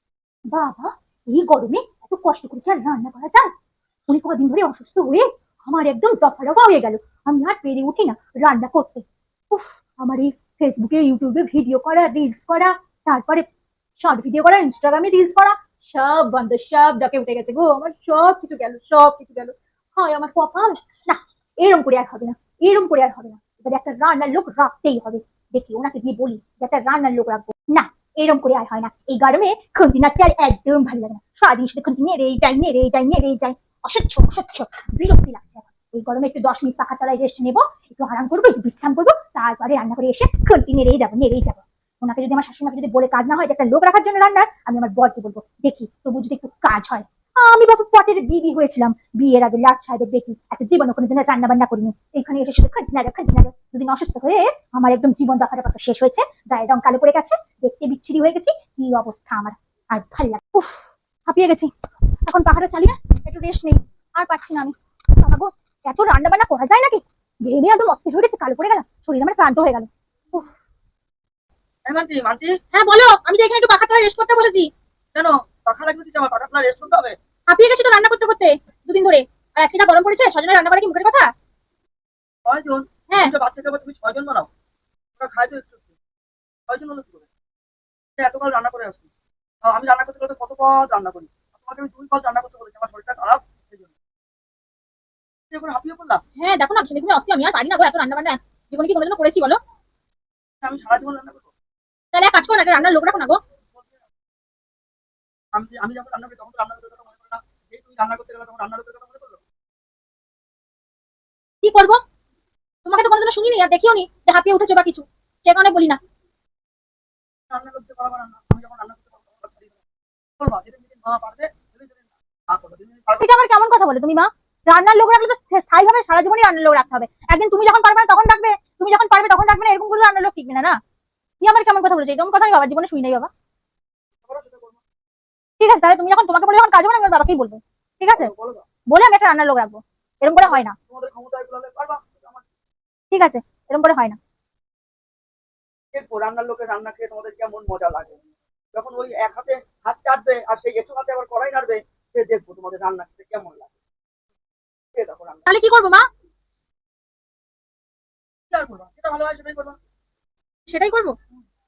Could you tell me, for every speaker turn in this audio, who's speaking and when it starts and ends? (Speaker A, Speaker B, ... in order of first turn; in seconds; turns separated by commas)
Speaker A: 0.5-3.5, Speaker A: 4.1-13.5, Speaker A: 14.0-61.7, Speaker A: 62.3-70.5, Speaker B: 71.8-72.6, Speaker A: 72.7-74.7, Speaker B: 75.1-77.2, Speaker A: 77.5-81.3, Speaker B: 82.5-84.5, Speaker B: 85.2-85.9, Speaker B: 86.7-87.3, Speaker B: 88.2-89.1, Speaker B: 89.7-93.9, Speaker B: 95.5-96.2, Speaker A: 96.4-99.6, Speaker B: 100.6-101.5, Speaker A: 102.1-103.4, Speaker B: 105.5-109.4, Speaker A: 111.6-112.0, Speaker A: 112.8-116.0, Speaker B: 117.5-119.8, Speaker B: 120.4-123.2, Speaker A: 123.2-130.8, Speaker A: 131.4-133.3, Speaker B: 134.2-134.8, Speaker A: 135.6-138.3, Speaker B: 138.1-138.7, Speaker A: 138.9-140.8, Speaker B: 140.3-142.4, Speaker A: 143.1-144.2, Speaker B: 145.9-148.2, Speaker B: 148.7-153.8, Speaker B: 154.9-155.5, Speaker A: 155.5-156.1, Speaker B: 158.5-159.8, Speaker A: 160.7-161.2